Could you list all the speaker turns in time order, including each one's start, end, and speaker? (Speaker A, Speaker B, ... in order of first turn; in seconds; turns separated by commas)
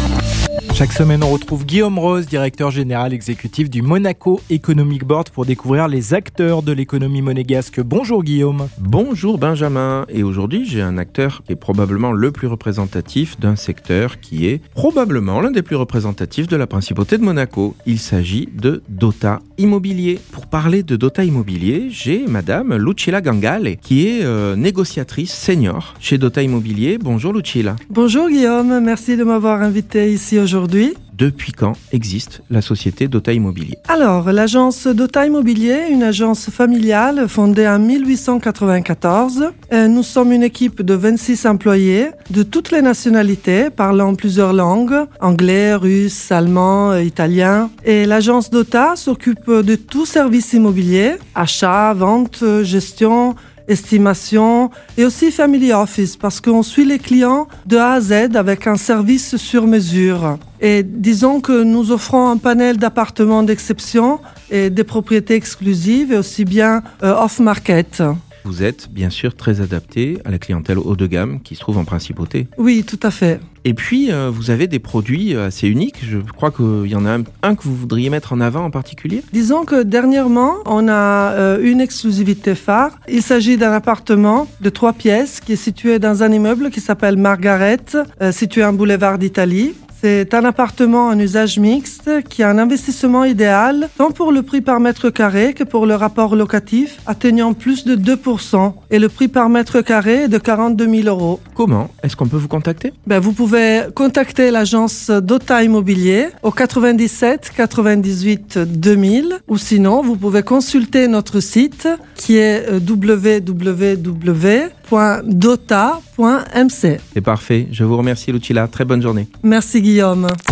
Speaker A: 0.7-8.7, Speaker B: 8.8-27.8, Speaker C: 27.9-31.0, Speaker B: 31.1-33.8, Speaker C: 33.9-68.2, Speaker B: 68.4-72.5, Speaker C: 72.6-73.4, Speaker B: 73.6-79.2, Speaker C: 79.3-101.4, Speaker B: 101.6-103.0, Speaker C: 103.1-117.0, Speaker B: 117.2-119.3, Speaker C: 119.4-120.4